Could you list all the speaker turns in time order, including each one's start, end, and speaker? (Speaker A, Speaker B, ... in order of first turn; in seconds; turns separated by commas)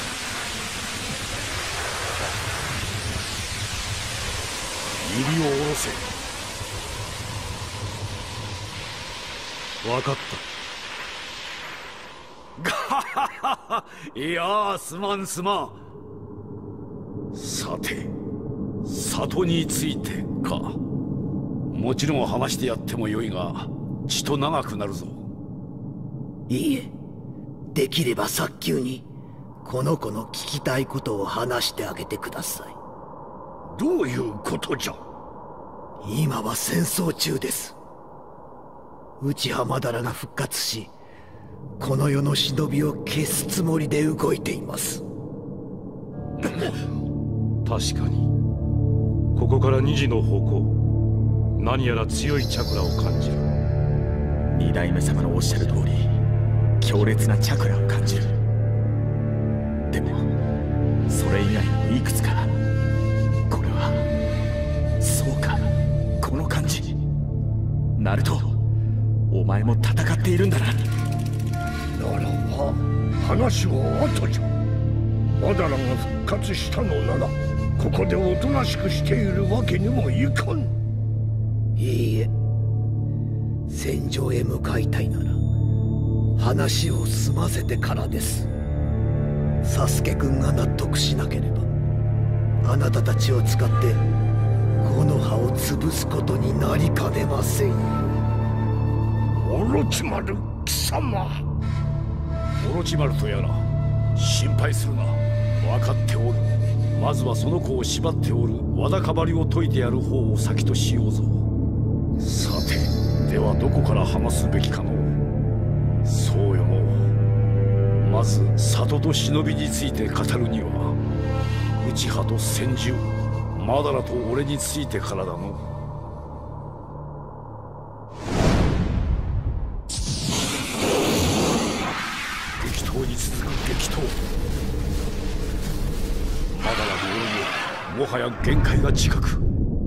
Speaker A: 5.0-6.1, Speaker B: 9.8-10.4, Speaker A: 12.6-15.8, Speaker A: 17.3-18.1, Speaker A: 18.9-20.8, Speaker A: 21.7-25.2, Speaker C: 26.5-27.0, Speaker C: 27.7-29.1, Speaker C: 29.6-32.8, Speaker D: 33.7-35.0, Speaker C: 36.0-37.8, Speaker C: 39.2-40.9, Speaker C: 41.8-45.0, Speaker B: 47.6-48.3, Speaker B: 49.4-50.7, Speaker B: 51.6-53.5, Speaker E: 54.5-56.1, Speaker E: 56.8-58.3, Speaker E: 59.9-60.2, Speaker E: 61.1-62.6, Speaker E: 63.5-64.0, Speaker E: 65.0-65.7, Speaker E: 66.2-66.9, Speaker E: 68.0-68.6, Speaker E: 69.3-70.8, Speaker D: 72.0-74.5, Speaker D: 75.4-80.7, Speaker C: 81.8-82.3, Speaker C: 83.7-85.4, Speaker C: 86.4-88.5, Speaker C: 89.6-91.7, Speaker C: 92.6-94.0, Speaker C: 94.8-98.1, Speaker D: 99.4-101.4, Speaker A: 102.6-111.5, Speaker A: 112.2-115.2, Speaker A: 116.0-117.1, Speaker A: 118.0-121.0, Speaker A: 121.8-125.6, Speaker A: 132.6-134.2, Speaker A: 136.5-139.4